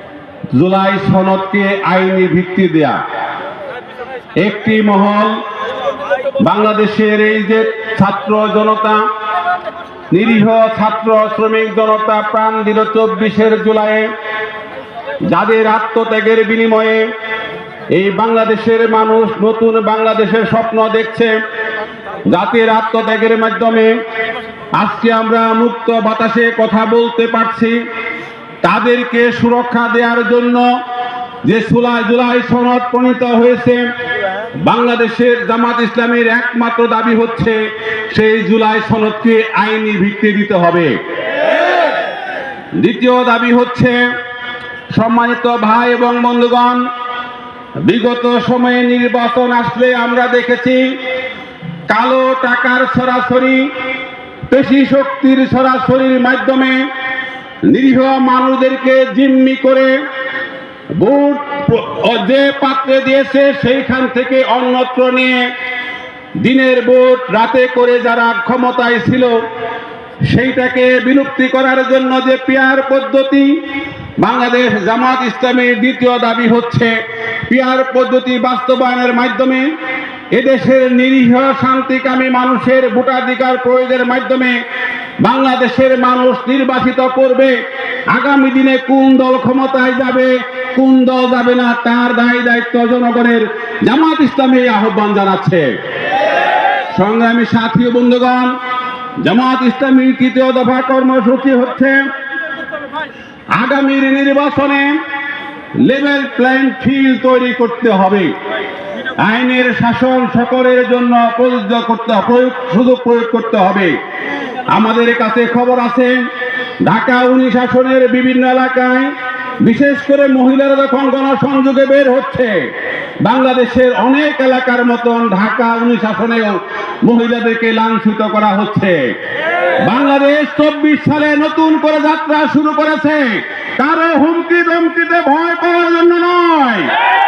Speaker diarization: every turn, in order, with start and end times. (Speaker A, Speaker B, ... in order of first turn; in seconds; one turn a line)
Speaker A: 0.5-3.0
Speaker A: 4.4-5.4
Speaker A: 6.4-9.0
Speaker A: 10.1-14.1
Speaker A: 15.3-17.0
Speaker A: 17.9-21.3
Speaker A: 22.3-23.9
Speaker A: 24.8-27.8
Speaker A: 28.6-30.6
Speaker A: 31.4-33.8
Speaker A: 34.6-37.6
Speaker A: 38.1-40.9
Speaker A: 42.8-44.0
Speaker A: 44.9-46.8
Speaker A: 47.8-50.8
Speaker A: 51.9-53.6
Speaker A: 54.5-56.9
Speaker A: 57.7-59.9
Speaker A: 60.9-65.5
Speaker A: 66.4-69.4
Speaker A: 70.3-73.5
Speaker A: 74.2-77.0
Speaker A: 77.5-79.7
Speaker A: 80.3-84.6
Speaker A: 85.2-87.5
Speaker A: 88.1-95.7
Speaker A: 96.9-98.5
Speaker A: 99.2-102.0
Speaker A: 103.5-104.9
Speaker A: 105.8-108.3
Speaker A: 109.2-113.9
Speaker A: 114.7-116.2
Speaker A: 116.8-119.1
Speaker A: 119.6-122.6
Speaker A: 123.2-129.0
Speaker A: 129.8-136.9